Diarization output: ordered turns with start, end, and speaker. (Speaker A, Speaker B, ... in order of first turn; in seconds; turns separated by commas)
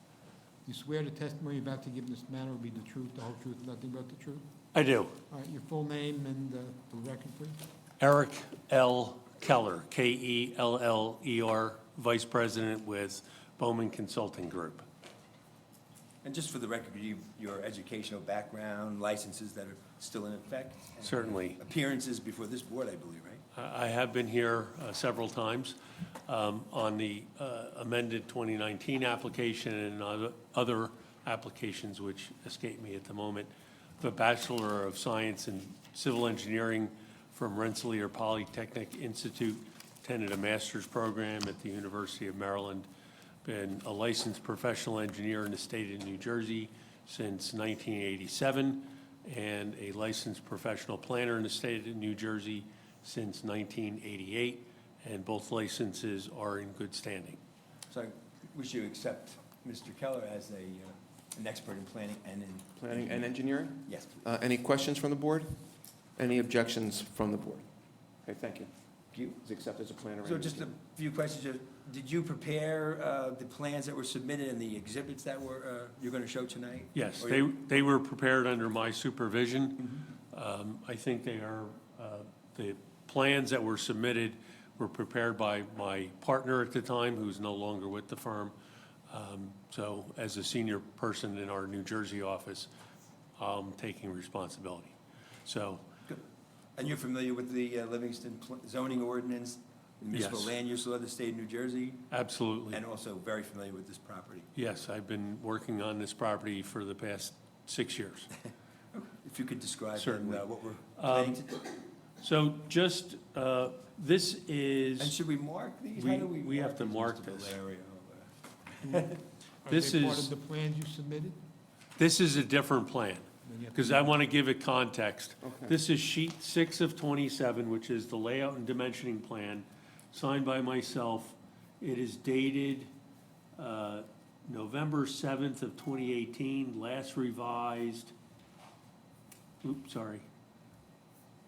Speaker A: 0.6-4.5, Speaker B: 4.7-5.2, Speaker A: 5.3-7.6, Speaker B: 8.0-14.8, Speaker C: 16.2-23.4, Speaker B: 21.0-21.6, Speaker B: 23.5-42.9, Speaker B: 43.4-57.4, Speaker C: 57.9-64.3, Speaker D: 64.3-65.5, Speaker D: 66.2-67.7, Speaker D: 68.2-68.7, Speaker C: 69.1-69.5, Speaker D: 69.5-70.2, Speaker C: 70.2-77.5, Speaker B: 76.9-88.5, Speaker B: 89.1-92.7, Speaker B: 93.4-94.9, Speaker B: 95.5-95.8, Speaker C: 96.8-102.0, Speaker B: 100.1-100.6, Speaker B: 102.1-102.8, Speaker C: 102.7-104.5, Speaker B: 104.5-108.3, Speaker C: 108.9-111.7, Speaker B: 110.0-110.4, Speaker B: 111.0-111.4, Speaker B: 112.2-115.2, Speaker C: 115.0-119.2, Speaker B: 115.9-117.6, Speaker A: 118.8-121.4, Speaker B: 119.7-120.3, Speaker B: 122.0-132.9, Speaker A: 123.4-124.1, Speaker B: 133.6-138.1, Speaker B: 139.6-140.2